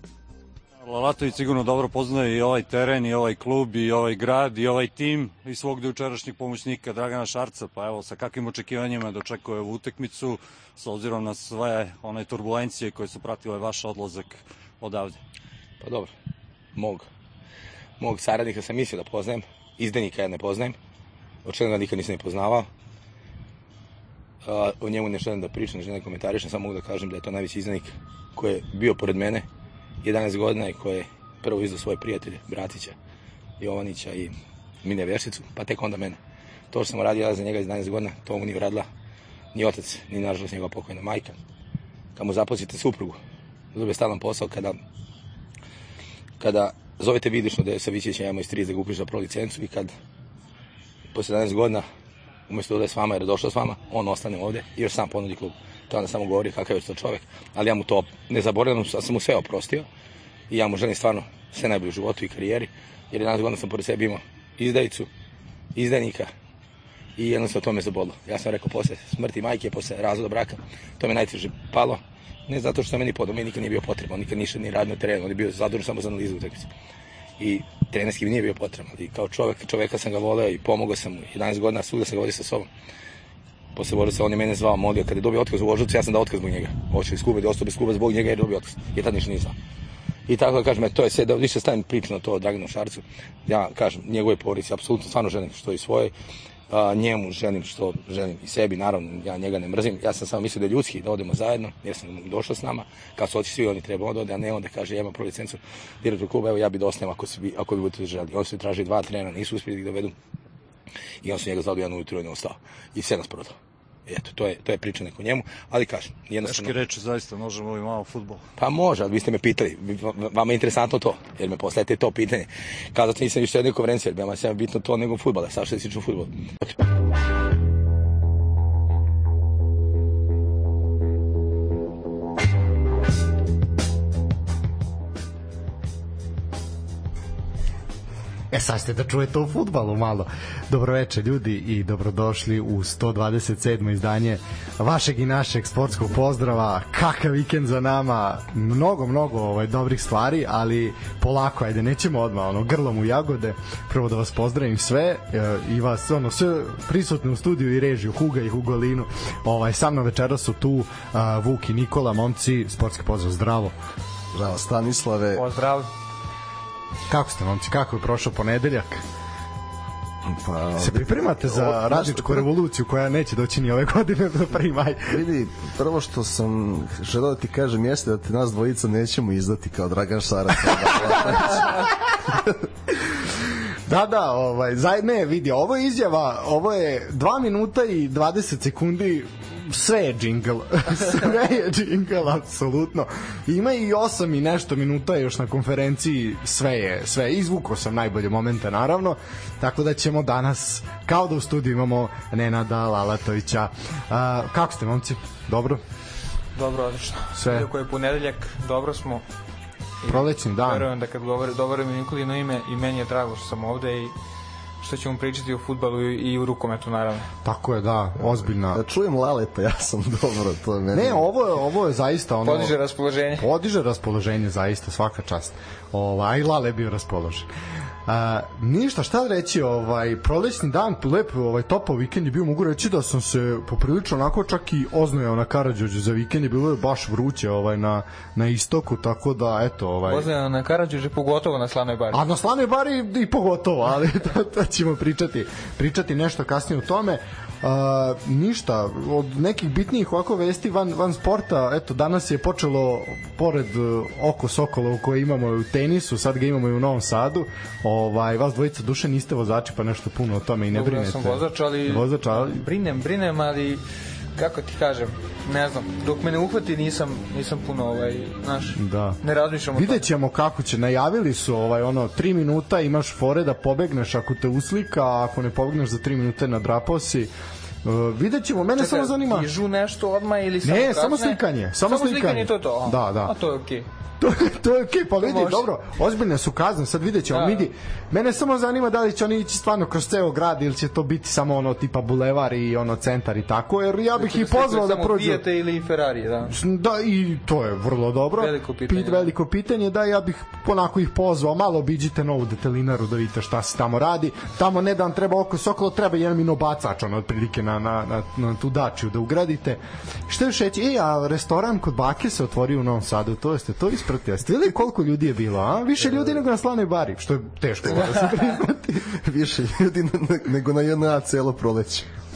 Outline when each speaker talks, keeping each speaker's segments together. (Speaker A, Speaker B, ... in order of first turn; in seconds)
Speaker A: 0.8-15.2, 116.4-118.4
Speaker B: 15.8-16.1, 16.8-17.1, 18.0-20.8, 21.4-22.7, 24.4-29.5, 30.0-33.0, 33.6-36.2, 36.7-38.9, 39.5-41.4, 42.2-43.2, 43.7-44.8, 46.4-49.9, 51.1-51.9, 52.5-59.9, 60.5-65.1, 65.8-66.3, 67.2-76.7, 77.4-82.7, 83.8-89.5, 90.3-96.1, 96.7-110.1, 111.2-113.6, 114.1-116.8, 118.6-126.3
Speaker C: 138.5-163.7, 167.1-169.0, 170.8-175.2, 180.6-182.2, 183.9-205.8, 207.3-207.7, 210.1-210.9, 217.4-218.8, 220.9-222.8, 223.4-227.5, 228.1-240.3, 242.1-262.7, 268.7-269.2, 269.7-277.3, 277.8-279.5, 280.6-283.4, 284.2-295.4, 296.5-319.1
Speaker D: 164.3-165.4, 170.3-172.5, 175.1-181.8, 218.7-221.2, 317.9-322.1
Speaker E: 165.3-165.9, 206.6-209.2, 210.0-214.1, 214.8-217.3, 222.4-223.5, 240.1-242.2, 260.7-263.8, 264.4-270.1, 278.8-283.9, 285.2-285.7, 287.3-287.7, 294.2-296.6, 298.4-299.3